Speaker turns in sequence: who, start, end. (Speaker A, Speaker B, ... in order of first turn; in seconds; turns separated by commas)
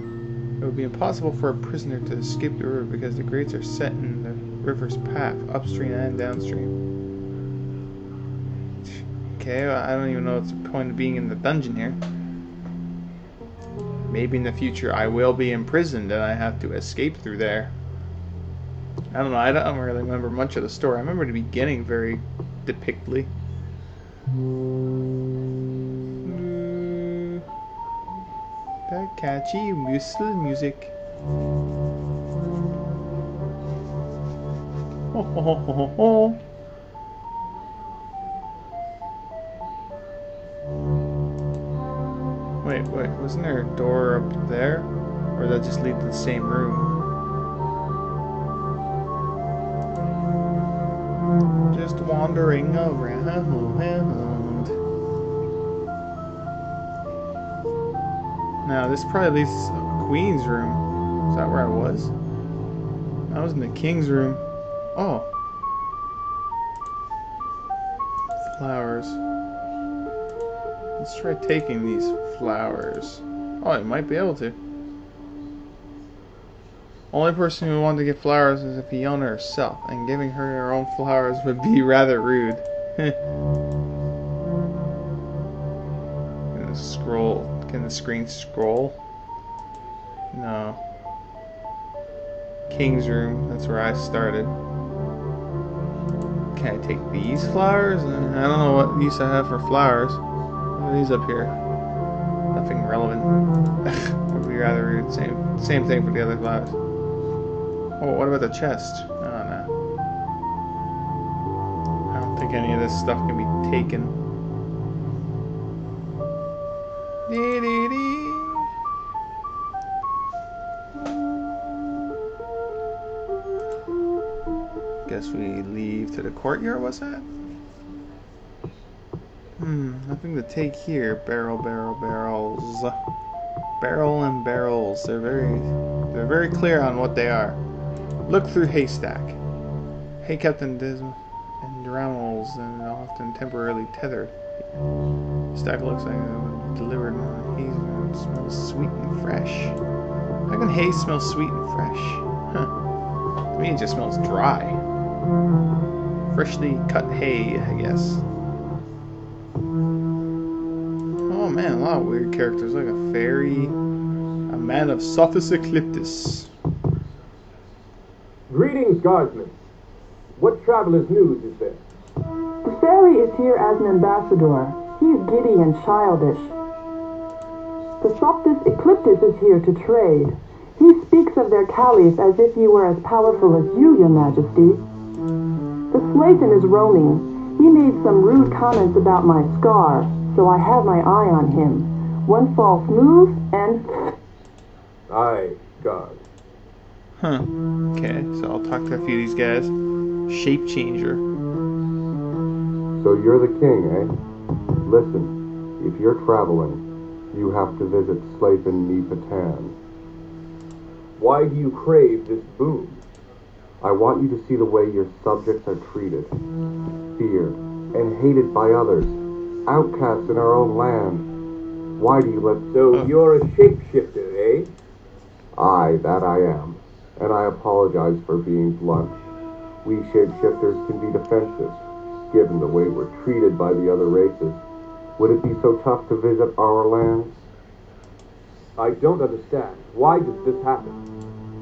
Speaker A: 0.6-6.7, Speaker A: 8.9-12.0, Speaker A: 14.1-17.7, Speaker A: 19.1-23.3, Speaker A: 26.2-27.4, Speaker A: 28.9-30.9, Speaker A: 35.1-36.4, Speaker A: 42.6-47.0, Speaker A: 51.7-54.7, Speaker A: 58.6-62.1, Speaker A: 63.3-64.4, Speaker A: 65.0-65.3, Speaker A: 68.4-69.2, Speaker A: 71.0-74.6, Speaker A: 77.1-83.2, Speaker A: 86.5-89.0, Speaker A: 90.3-90.8, Speaker A: 92.7-94.5, Speaker A: 96.5-100.2, Speaker A: 100.8-101.6, Speaker A: 102.5-106.8, Speaker A: 108.0-109.7, Speaker A: 112.1-114.2, Speaker A: 117.3-118.6, Speaker A: 125.1-127.3, Speaker A: 129.6-133.0, Speaker A: 133.8-137.6, Speaker A: 138.3-139.4, Speaker A: 140.2-144.3, Speaker A: 145.5-149.8, Speaker A: 150.5-152.7, Speaker A: 153.5-154.8, Speaker A: 156.3-158.2, Speaker A: 161.3-163.8, Speaker A: 164.5-166.5, Speaker B: 168.5-169.6, Speaker B: 170.3-171.8, Speaker C: 172.6-176.5, Speaker C: 178.0-184.8, Speaker C: 185.9-194.1, Speaker B: 195.1-196.2, Speaker A: 197.2-199.7, Speaker A: 200.3-201.2, Speaker D: 203.0-204.1, Speaker D: 204.8-209.8, Speaker B: 211.2-213.0, Speaker D: 213.8-216.3, Speaker D: 217.2-221.3, Speaker D: 222.0-222.7, Speaker B: 222.7-224.7, Speaker D: 225.6-229.2, Speaker D: 229.8-234.6, Speaker D: 235.2-237.3, Speaker B: 238.8-241.0